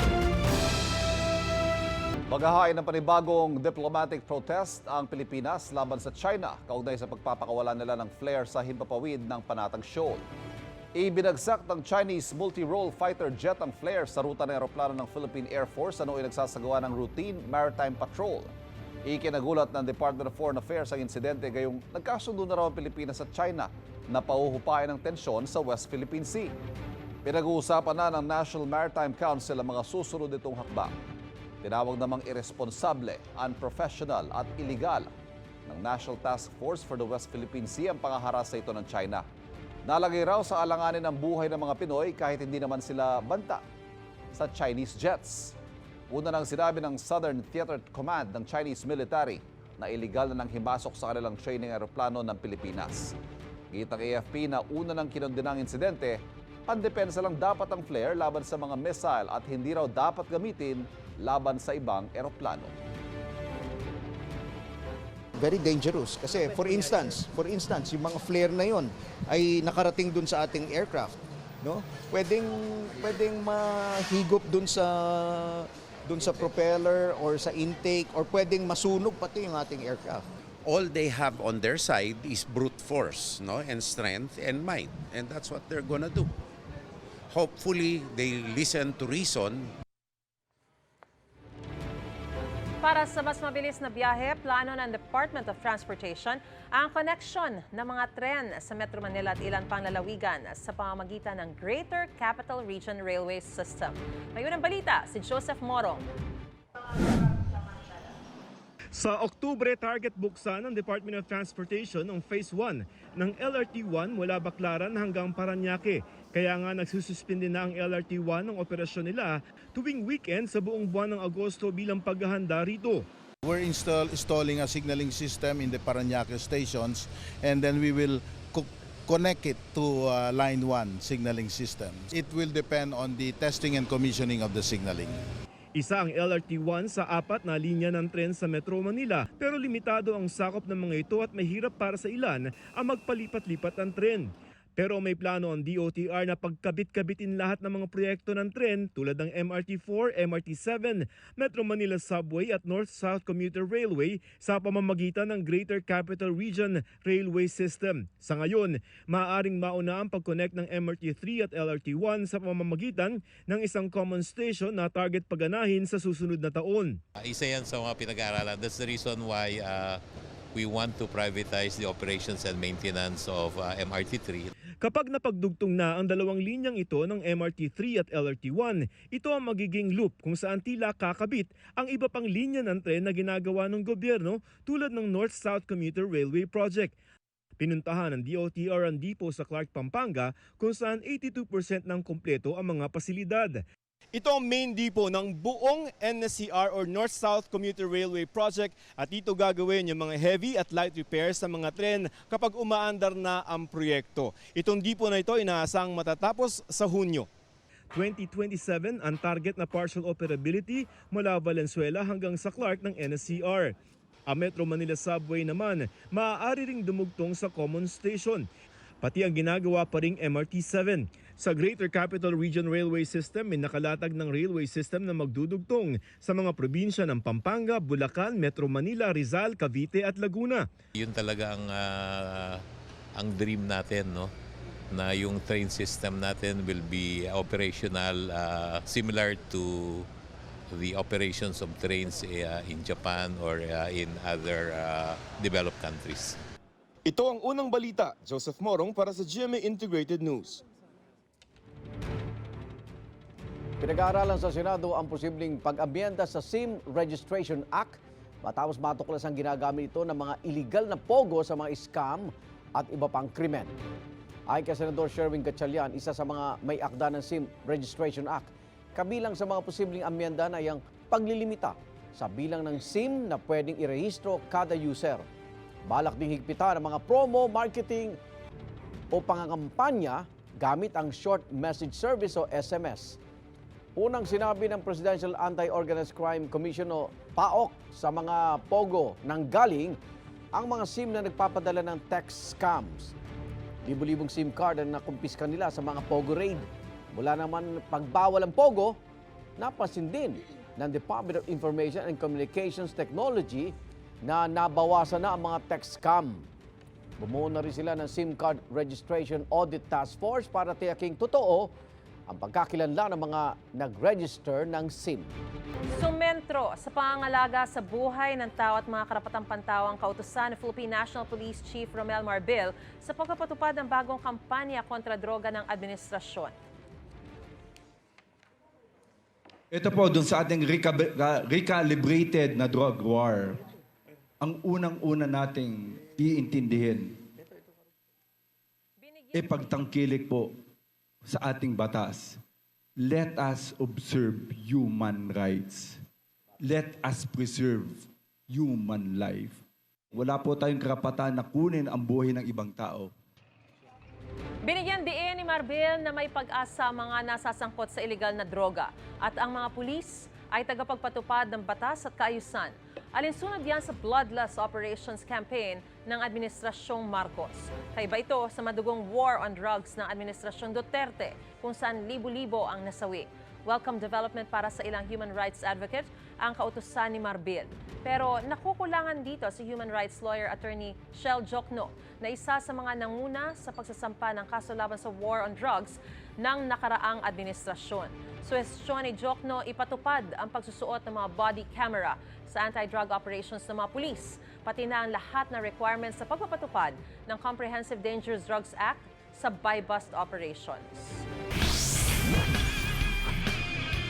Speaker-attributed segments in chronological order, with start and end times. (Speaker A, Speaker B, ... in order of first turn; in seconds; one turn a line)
Speaker A: 2.3-10.2
Speaker A: 10.9-18.5
Speaker A: 19.1-26.5
Speaker A: 27.2-30.9
Speaker A: 31.6-35.1
Speaker A: 35.7-39.2
Speaker A: 39.9-43.6
Speaker A: 44.3-45.5
Speaker A: 46.1-53.1
Speaker A: 53.7-62.7
Speaker B: 65.4-71.1
Speaker B: 71.6-80.2
Speaker C: 80.6-86.3
Speaker C: 87.3-89.7
Speaker D: 92.8-106.0
Speaker E: 108.9-123.0
Speaker F: 123.4-135.2
Speaker E: 135.7-167.0
Speaker G: 167.2-170.0
Speaker G: 170.5-174.5
Speaker E: 174.8-186.9
Speaker E: 187.6-193.6
Speaker E: 194.1-207.3
Speaker E: 207.9-213.7
Speaker E: 214.3-218.4
Speaker E: 219.0-230.6
Speaker G: 230.9-232.6
Speaker G: 233.2-234.3
Speaker G: 234.9-240.1
Speaker G: 240.7-246.4
Speaker E: 247.1-250.6
Speaker H: 253.8-263.7
Speaker H: 264.5-275.2
Speaker H: 275.9-278.2
Speaker H: 279.1-283.2
Speaker H: 283.9-289.9
Speaker H: 290.5-293.1
Speaker H: 293.8-298.9
Speaker H: 299.6-303.7
Speaker H: 304.2-306.5
Speaker H: 307.2-311.7
Speaker H: 312.3-315.3
Speaker D: 315.9-326.5
Speaker I: 329.7-333.6
Speaker I: 334.4-337.1
Speaker D: 339.0-339.8
Speaker I: 339.3-340.5
Speaker I: 341.2-342.4
Speaker I: 343.0-346.0
Speaker I: 346.6-349.6
Speaker I: 350.1-353.1
Speaker D: 354.6-401.2